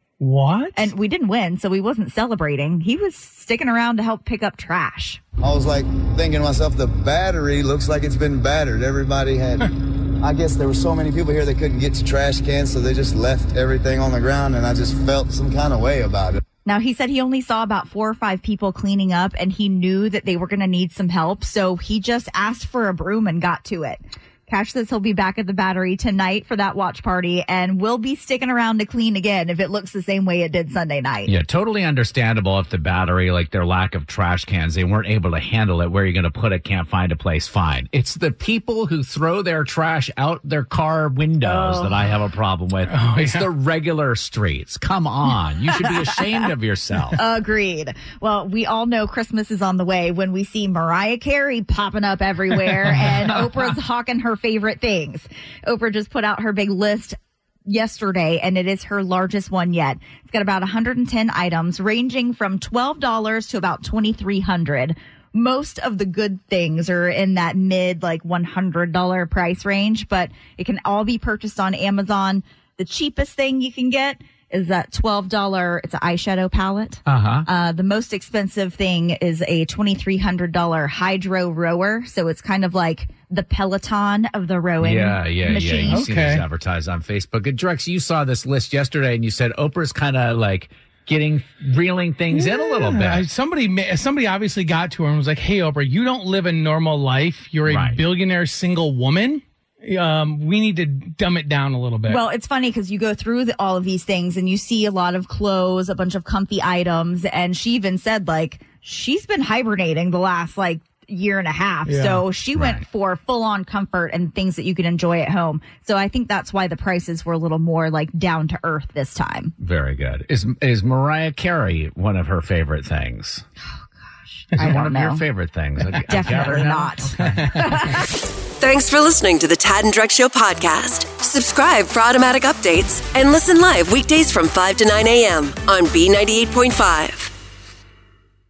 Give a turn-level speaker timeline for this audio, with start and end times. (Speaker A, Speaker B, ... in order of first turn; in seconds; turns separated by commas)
Speaker A: 0.2-0.9, Speaker B: 0.7-5.2, Speaker C: 5.4-16.4, Speaker B: 16.6-31.3, Speaker D: 31.2-47.2, Speaker B: 41.4-42.1, Speaker A: 42.9-43.5, Speaker B: 47.2-86.0, Speaker D: 77.0-77.5, Speaker D: 84.8-93.3, Speaker A: 85.9-86.4, Speaker A: 92.3-102.2, Speaker D: 97.6-98.0, Speaker B: 102.0-119.5, Speaker A: 111.8-112.2, Speaker D: 112.5-112.8, Speaker D: 119.6-123.4, Speaker B: 124.3-125.2, Speaker D: 124.6-127.4, Speaker B: 126.0-128.1, Speaker A: 127.4-127.8, Speaker E: 128.6-137.3